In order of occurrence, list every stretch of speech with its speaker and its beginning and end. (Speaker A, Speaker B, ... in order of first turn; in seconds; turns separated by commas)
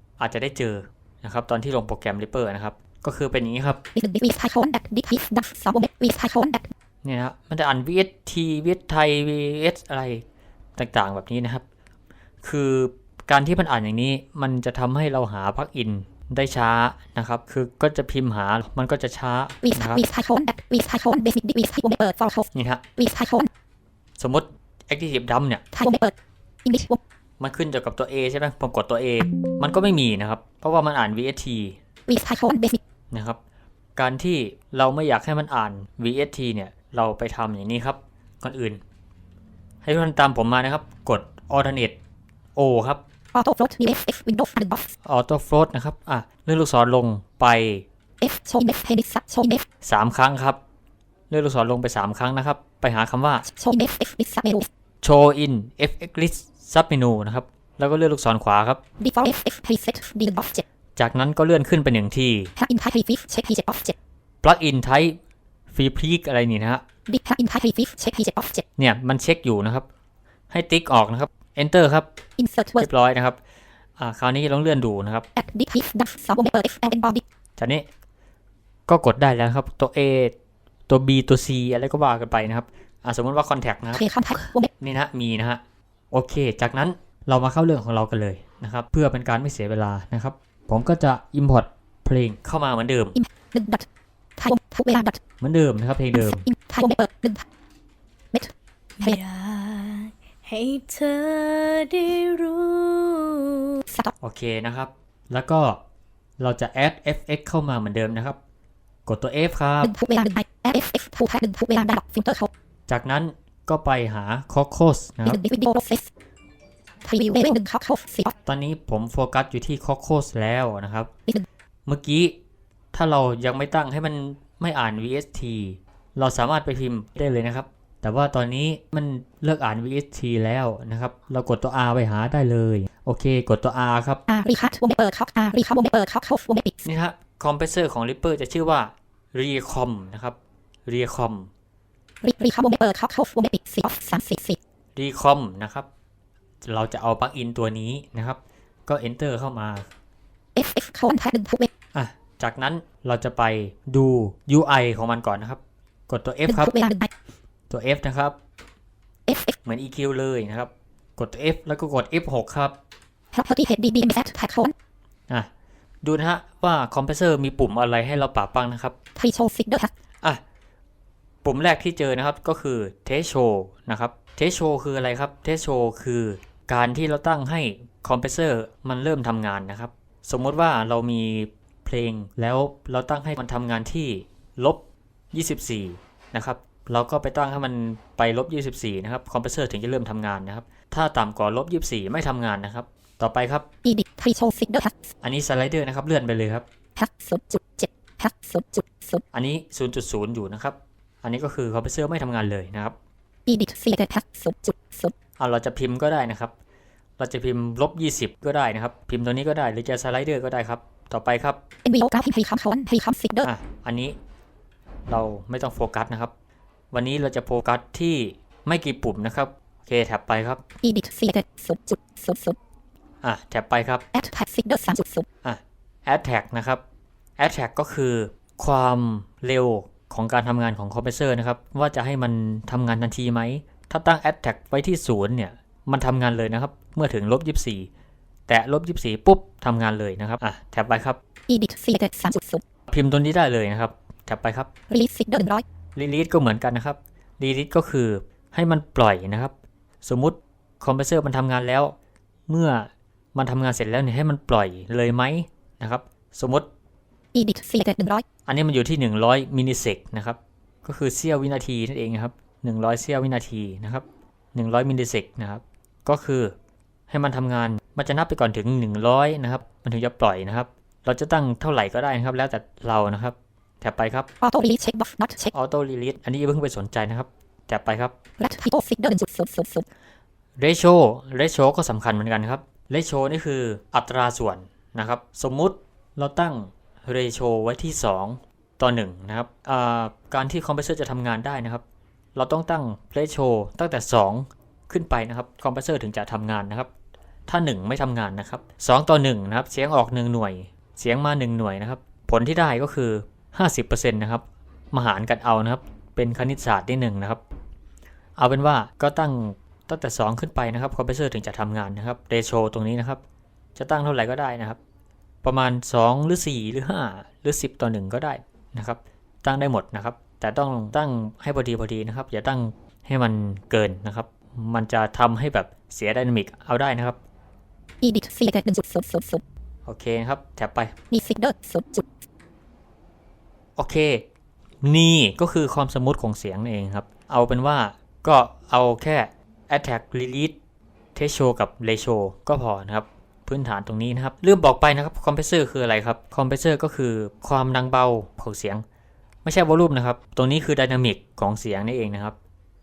Speaker A: 0.2-3.8, Speaker B: 3.9-6.7, Speaker A: 7.0-10.2, Speaker A: 10.8-11.6, Speaker A: 12.4-20.0, Speaker B: 19.6-23.5, Speaker A: 22.5-22.8, Speaker A: 24.2-25.6, Speaker B: 25.7-27.0, Speaker A: 27.4-31.8, Speaker B: 32.1-32.8, Speaker A: 33.1-33.4, Speaker A: 34.0-38.8, Speaker A: 39.8-42.0, Speaker A: 42.5-43.0, Speaker B: 43.3-44.9, Speaker A: 45.0-47.9, Speaker B: 48.2-49.6, Speaker A: 49.8-50.6, Speaker A: 51.3-53.5, Speaker B: 53.5-54.7, Speaker A: 55.0-58.8, Speaker B: 59.0-60.6, Speaker A: 61.0-62.5, Speaker B: 62.5-63.9, Speaker A: 64.4-65.2, Speaker A: 65.7-66.8, Speaker B: 67.1-68.6, Speaker A: 68.8-69.9, Speaker A: 70.5-72.1, Speaker B: 72.4-72.9, Speaker A: 72.8-73.4, Speaker A: 74.0-75.3, Speaker B: 75.3-77.2, Speaker A: 77.6-77.9, Speaker A: 78.9-80.3, Speaker A: 80.9-84.1, Speaker B: 83.9-84.7, Speaker A: 84.8-93.2, Speaker B: 93.1-95.2, Speaker A: 95.4-96.5, Speaker B: 96.1-97.4, Speaker B: 98.3-99.2, Speaker C: 99.0-103.8, Speaker B: 103.9-104.1, Speaker A: 104.2-105.8, Speaker A: 106.4-108.4, Speaker A: 109.0-109.9, Speaker B: 109.8-112.5, Speaker A: 112.9-115.4, Speaker B: 115.2-116.1, Speaker B: 117.0-118.3, Speaker A: 118.4-121.1, Speaker A: 121.8-122.4, Speaker A: 122.9-134.2, Speaker B: 134.3-136.8, Speaker A: 136.8-141.5, Speaker B: 142.2-144.6, Speaker A: 144.9-145.9, Speaker A: 146.6-149.9, Speaker B: 150.5-151.7, Speaker A: 151.9-156.7, Speaker B: 156.5-157.1, Speaker A: 157.7-158.3, Speaker B: 159.3-159.6, Speaker A: 159.6-162.8, Speaker B: 163.3-164.7, Speaker A: 166.0-168.9, Speaker B: 169.1-169.9, Speaker A: 171.4-193.7, Speaker B: 193.8-195.1, Speaker A: 195.2-196.6, Speaker B: 196.9-199.2, Speaker A: 199.3-202.9, Speaker B: 203.4-205.1, Speaker A: 205.4-206.5, Speaker A: 207.2-211.6, Speaker B: 211.8-213.5, Speaker A: 213.4-214.2, Speaker A: 215.1-216.3, Speaker A: 216.9-220.6, Speaker B: 220.8-222.6, Speaker A: 223.2-224.0, Speaker B: 224.1-225.3, Speaker A: 225.4-226.8, Speaker A: 227.4-237.9, Speaker A: 238.5-241.2, Speaker B: 241.5-242.6, Speaker A: 242.9-244.7, Speaker B: 244.9-245.6, Speaker A: 245.9-251.9, Speaker A: 252.5-256.7, Speaker B: 257.3-258.2, Speaker A: 258.4-266.5, Speaker A: 267.1-274.3, Speaker B: 274.4-275.5, Speaker A: 275.5-278.1, Speaker B: 278.4-279.9, Speaker A: 280.6-291.8, Speaker A: 292.3-296.9, Speaker A: 297.5-307.4, Speaker A: 308.4-313.2, Speaker A: 313.8-314.8, Speaker A: 315.4-327.2, Speaker B: 328.0-329.4, Speaker A: 329.9-330.9, Speaker B: 331.1-332.1, Speaker A: 333.8-334.2, Speaker A: 334.8-340.6, Speaker A: 341.1-348.8, Speaker A: 349.4-352.4